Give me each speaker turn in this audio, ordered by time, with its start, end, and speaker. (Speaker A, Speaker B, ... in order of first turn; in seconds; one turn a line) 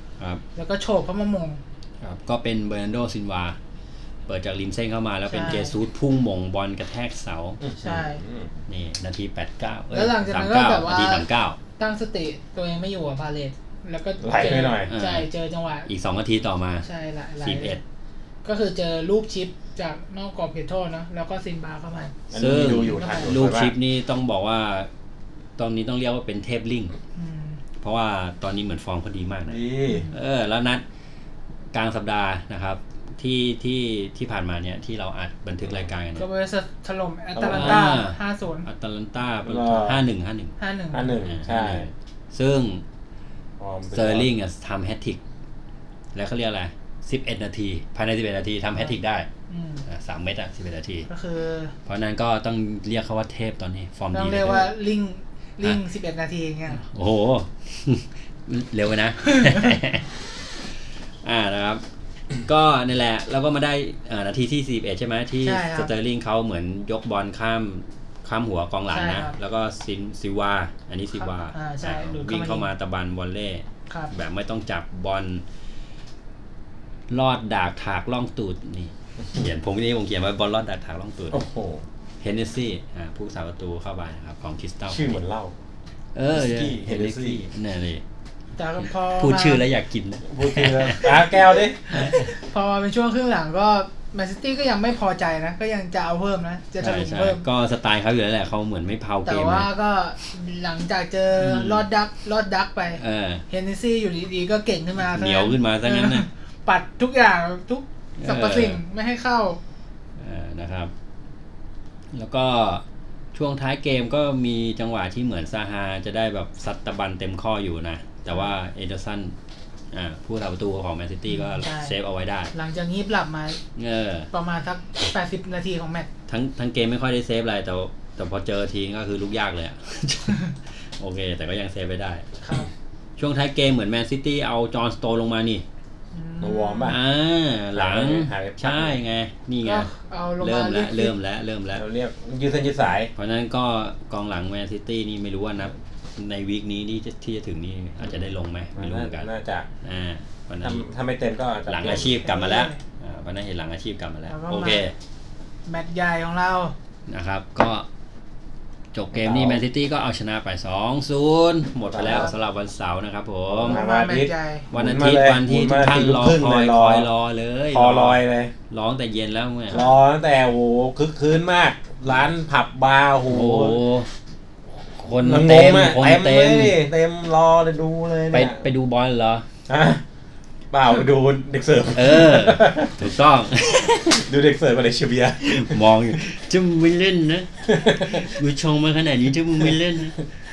Speaker A: 0.6-1.6
Speaker B: 2.0-3.6
Speaker B: 4.3-7.6
Speaker A: 5.3-5.7
Speaker C: 7.6-8.5
Speaker A: 7.8-8.2
Speaker B: 8.7-11.6
Speaker A: 9.9-11.2
Speaker A: 11.8-15.9
Speaker C: 14.2-14.9
Speaker B: 14.5-15.3
Speaker B: 15.8-16.8
Speaker A: 16.8-17.8
Speaker B: 17.4-17.8
Speaker A: 18.4-22.2
Speaker C: 22.3-23.7
Speaker B: 22.3-24.9
Speaker A: 22.8-23.3
Speaker B: 25.6-26.9
Speaker A: 27.1-27.6
Speaker B: 27.8-29.6
Speaker C: 29.5-30.1
Speaker A: 29.9-30.1
Speaker B: 30.1-30.8
Speaker B: 31.7-36.2
Speaker A: 36.1-38.7
Speaker C: 37.4-38.0
Speaker B: 37.5-40.5
Speaker C: 39.4-40.0
Speaker A: 40.6-41.1
Speaker C: 40.9-41.9
Speaker B: 41.2-42.8
Speaker C: 43.6-44.3
Speaker B: 43.9-45.2
Speaker B: 46.1-49.3
Speaker A: 49.5-49.9
Speaker B: 49.9-51.1
Speaker A: 51.1-51.7
Speaker B: 51.9-54.7
Speaker A: 54.1-56.8
Speaker B: 56.8-60.0
Speaker B: 61.2-61.8
Speaker B: 62.4-75.4
Speaker A: 65.4-65.9
Speaker A: 68.9-69.3
Speaker A: 71.1-72.7
Speaker B: 77.1-81.4
Speaker C: 81.3-81.8
Speaker B: 82.2-85.2
Speaker C: 84.9-85.5
Speaker B: 86.1-88.0
Speaker C: 86.3-87.4
Speaker A: 88.6-89.6
Speaker B: 89.1-91.3
Speaker C: 90.3-92.0
Speaker A: 91.9-97.4
Speaker B: 91.9-92.3
Speaker B: 96.8-99.7
Speaker A: 99.2-109.6
Speaker B: 101.4-101.8
Speaker B: 103.0-103.4
Speaker B: 105.0-106.2
Speaker B: 108.2-108.8
Speaker B: 110.2-110.9
Speaker B: 112.1-119.3
Speaker B: 119.9-122.5
Speaker A: 121.3-121.9
Speaker A: 122.5-123.6
Speaker B: 123.8-124.3
Speaker A: 124.3-126.1
Speaker B: 126.3-132.2
Speaker A: 132.4-132.7
Speaker B: 133.2-135.6
Speaker A: 136.1-136.9
Speaker C: 136.4-137.0
Speaker B: 136.9-139.9
Speaker C: 137.7-139.0
Speaker A: 139.6-141.1
Speaker B: 140.4-141.8
Speaker C: 141.7-143.1
Speaker B: 143.1-149.3
Speaker C: 148.7-149.7
Speaker B: 149.8-150.8
Speaker C: 150.6-152.2
Speaker B: 151.7-154.9
Speaker A: 151.8-152.8
Speaker A: 154.3-154.8
Speaker A: 155.7-156.7
Speaker B: 157.1-157.9
Speaker B: 158.9-163.8
Speaker C: 159.1-159.6
Speaker C: 161.9-162.3
Speaker A: 162.0-162.3
Speaker C: 163.5-167.1
Speaker A: 163.6-164.7
Speaker B: 164.7-169.8
Speaker C: 167.7-168.5
Speaker A: 169.7-170.0
Speaker C: 169.7-173.8
Speaker B: 173.3-174.1
Speaker B: 175.0-176.7
Speaker C: 175.2-178.6
Speaker B: 178.3-179.4
Speaker C: 179.7-180.0
Speaker C: 180.7-182.9
Speaker B: 181.9-184.2
Speaker C: 184.1-185.8
Speaker B: 185.4-190.1
Speaker C: 187.7-188.3